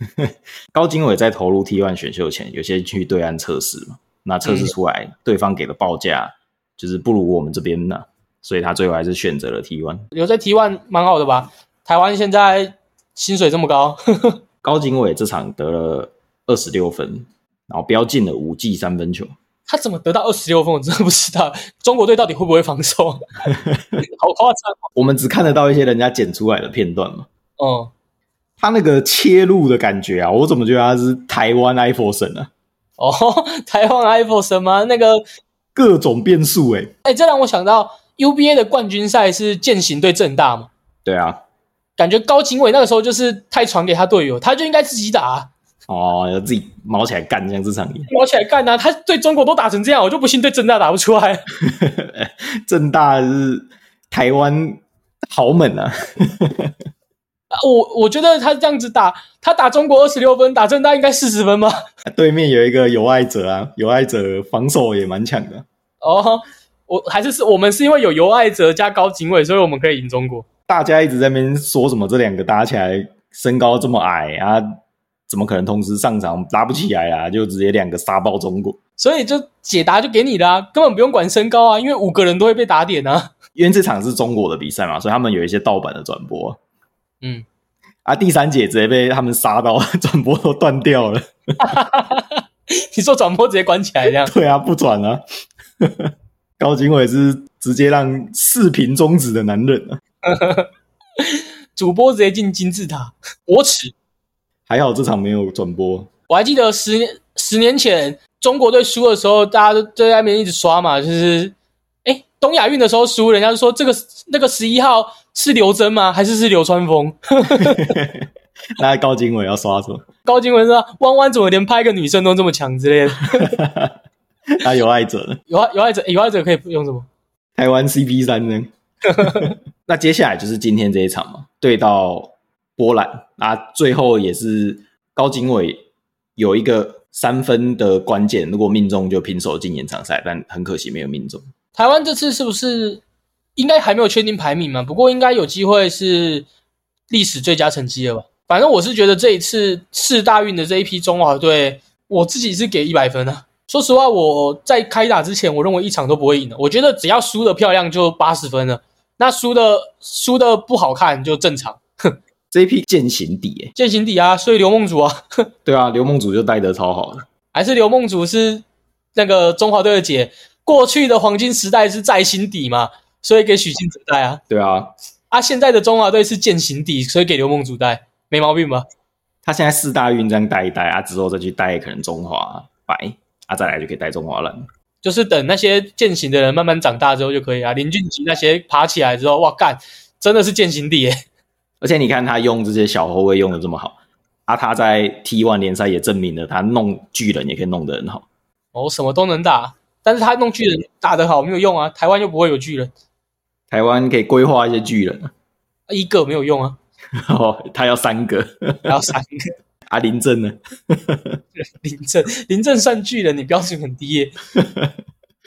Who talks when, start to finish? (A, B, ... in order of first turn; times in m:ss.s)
0:00.2-0:10.0 A
0:04.4-0:04.7 B
0:10.1-0:14.4 B
0:14.6-0:19.3 A
0:19.7-0:23.2 B
0:23.5-0:24.0 A
0:24.0-0:24.8 B
0:24.9-0:27.3 A
0:27.6-0:27.9 B
0:28.6-0:32.5 A
0:33.0-0:35.2 B
0:35.7-0:36.9 A
0:37.0-0:40.7 B
0:41.0-0:41.4 A
0:42.0-0:45.5 B
0:45.9-0:48.1 A
0:48.1-0:51.4 B
0:51.6-0:56.7 A
0:57.5-1:01.8 B
1:02.1-1:05.6 A
1:06.0-1:10.4 B
1:10.7-1:14.6 A
1:15.3-1:18.8 A
1:19.0-1:23.3 B
1:23.6-1:26.6 A
1:28.0-1:31.6 A
1:31.6-1:34.3 B
1:34.2-1:35.2 A
1:35.8-1:40.0 A
1:40.2-1:43.9 B
1:44.7-1:46.1 A
1:46.3-1:58.0 B
1:57.5-2:00.0 A
2:00.2-2:03.6 B
2:03.4-2:03.9 A
2:04.5-2:05.4 A
2:05.5-2:07.1 B
2:07.6-2:15.8 A
2:09.1-2:09.5 B
2:16.4-2:21.4 A
2:21.8-2:23.0 B
2:23.6-2:26.5 B
2:27.1-2:42.2 B
2:42.5-2:43.7 A
2:43.8-2:45.5 B
2:45.6-2:47.2 A
2:47.5-2:54.4 B
2:54.5-2:54.9 A
2:55.3-2:58.8 B
2:59.4-3:04.6 A
3:05.0-3:11.2 B
3:11.8-3:18.2 A
3:18.7-3:22.9 B
3:23.7-3:25.3 A
3:25.9-3:26.8 B
3:27.2-3:28.9 A
3:28.9-3:29.5 B
3:29.9-3:31.4 A
3:31.6-3:34.4 B
3:34.5-3:34.9 A